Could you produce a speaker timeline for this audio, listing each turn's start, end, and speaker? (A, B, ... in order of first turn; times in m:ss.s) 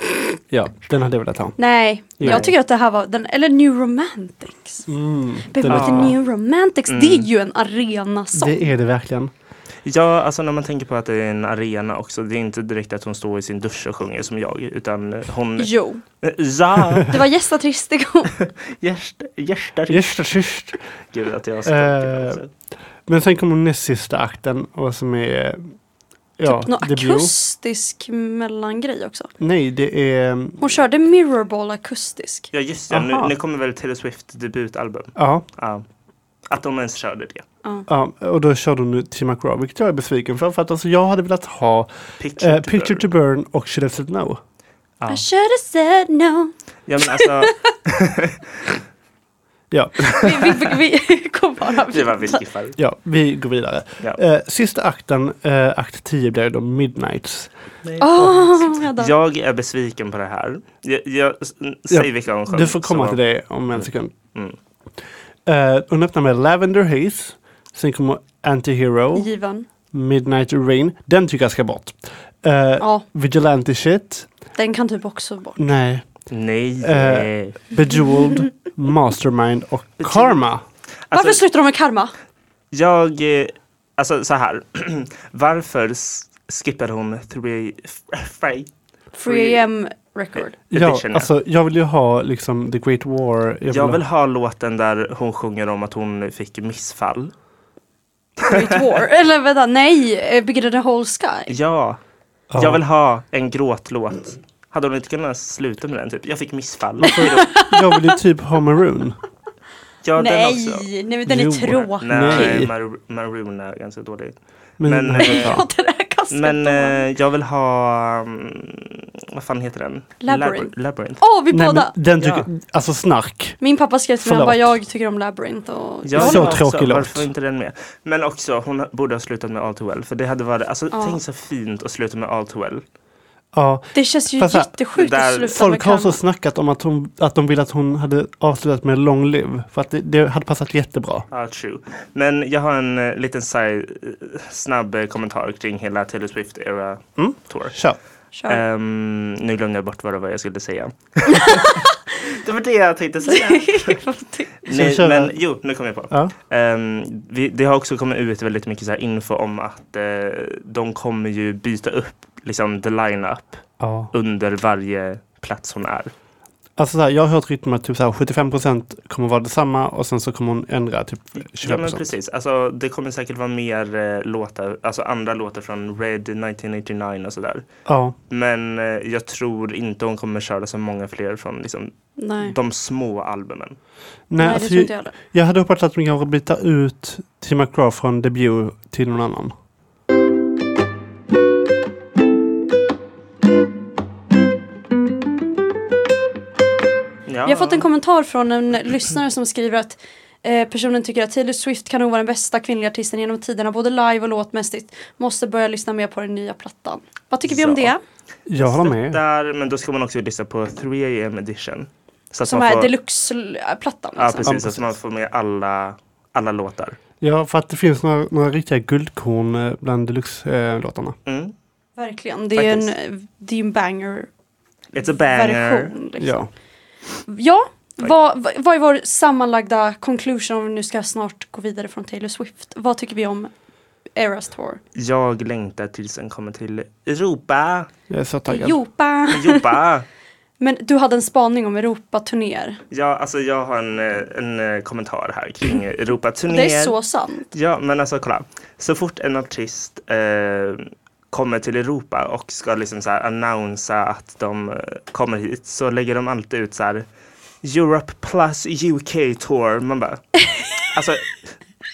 0:00.5-0:01.6 A
0:01.6-0:04.9 B
0:02.2-0:02.5 A
0:04.9-0:06.1 A
0:05.5-0:08.7 B
0:05.6-0:06.2 C
0:06.9-0:07.3 C
0:08.3-0:09.3 A
0:09.8-0:15.7 C
0:15.6-0:16.0 B
0:16.2-0:17.2 C
0:17.1-0:18.3 B
0:18.3-0:20.2 C
0:19.9-0:20.8 A
0:21.1-0:22.5 C
0:21.6-0:22.4 A
0:23.1-0:25.6 A
0:26.4-0:27.3 A
0:26.4-0:29.3 B
0:29.4-0:30.7 A
0:30.6-0:32.5 B
0:32.5-0:35.8 C
0:32.9-0:33.3 A
0:35.2-0:35.4 A
0:36.5-0:37.4 C
0:37.9-0:44.4 A
0:42.2-0:43.1 C
0:45.1-0:47.7 B
0:46.9-0:48.4 C
0:49.7-0:50.6 A
0:50.2-0:52.4 B
0:51.8-0:52.8 C
0:52.8-0:57.5 A
0:57.8-1:03.2 C
0:58.0-0:59.1 B
1:01.9-1:04.1 A
1:03.7-1:04.6 C
1:05.4-1:09.3 A
1:09.1-1:09.7 B
1:09.9-1:14.3 A
1:14.6-1:15.7 B
1:15.6-1:16.0 A
1:16.3-1:17.6 C
1:16.8-1:20.6 A
1:20.0-1:20.4 C
1:21.1-1:21.4 C
1:21.1-1:22.1 B
1:22.7-1:28.7 C
1:29.1-1:30.5 B
1:29.2-1:29.6 C
1:30.7-1:34.0 A
1:30.7-1:31.3 C
1:33.7-1:37.3 C
1:38.4-1:41.5 B
1:38.4-1:38.8 C
1:41.5-1:42.0 C
1:42.5-1:42.8 A
1:42.6-1:47.5 C
1:47.0-1:48.2 B
1:47.1-1:49.2 A
1:50.0-1:50.9 C
1:50.2-1:52.6 B
1:51.2-1:52.7 A
1:51.8-1:55.6 C
1:54.8-1:55.6 A
1:55.2-1:57.0 B
1:56.3-2:01.2 C
2:00.2-2:01.9 B
2:01.5-2:03.6 A
2:02.2-2:02.5 C
2:03.6-2:06.6 B
2:04.2-2:04.8 A
2:06.0-2:12.8 C
2:06.2-2:07.3 A
2:10.9-2:11.2 B
2:13.5-2:14.7 A
2:13.9-2:16.2 B
2:14.9-2:15.5 C
2:15.5-2:21.3 A
2:21.3-2:27.8 C
2:27.2-2:28.0 A
2:28.3-2:28.6 B
2:28.5-2:34.0 C
2:31.4-2:31.9 B
2:33.3-2:34.5 B
2:34.6-2:46.1 C
2:34.7-2:35.3 A
2:43.8-2:44.1 A
2:46.8-2:52.1 A
2:51.4-2:57.6 C
2:57.8-2:58.2 A
2:58.3-3:03.8 C
3:02.2-3:02.5 B
3:04.3-3:09.5 A
3:04.4-3:05.1 B
3:17.3-3:17.8 C
3:17.4-3:28.0 B
3:27.5-3:27.9 C
3:28.5-3:29.2 A
3:28.6-3:32.9 C
3:32.4-3:34.6 B
3:34.2-3:37.0 C
3:34.4-3:34.9 A
3:37.2-3:41.2 A
3:41.2-3:41.5 C
3:42.0-3:44.3 B
3:42.5-3:42.9 C
3:44.9-3:45.9 C
3:45.3-3:46.4 B
3:46.2-3:46.5 A
3:47.3-3:53.5 B
3:54.2-3:54.8 B
3:54.9-3:57.9 C
3:58.1-3:58.8 A
3:58.5-3:59.7 B
3:59.3-4:00.0 C
4:00.6-4:02.8 B
4:02.9-4:07.0 C
4:06.5-4:07.5 B
4:07.5-4:17.0 C
4:17.6-4:20.2 C
4:20.8-4:21.5 C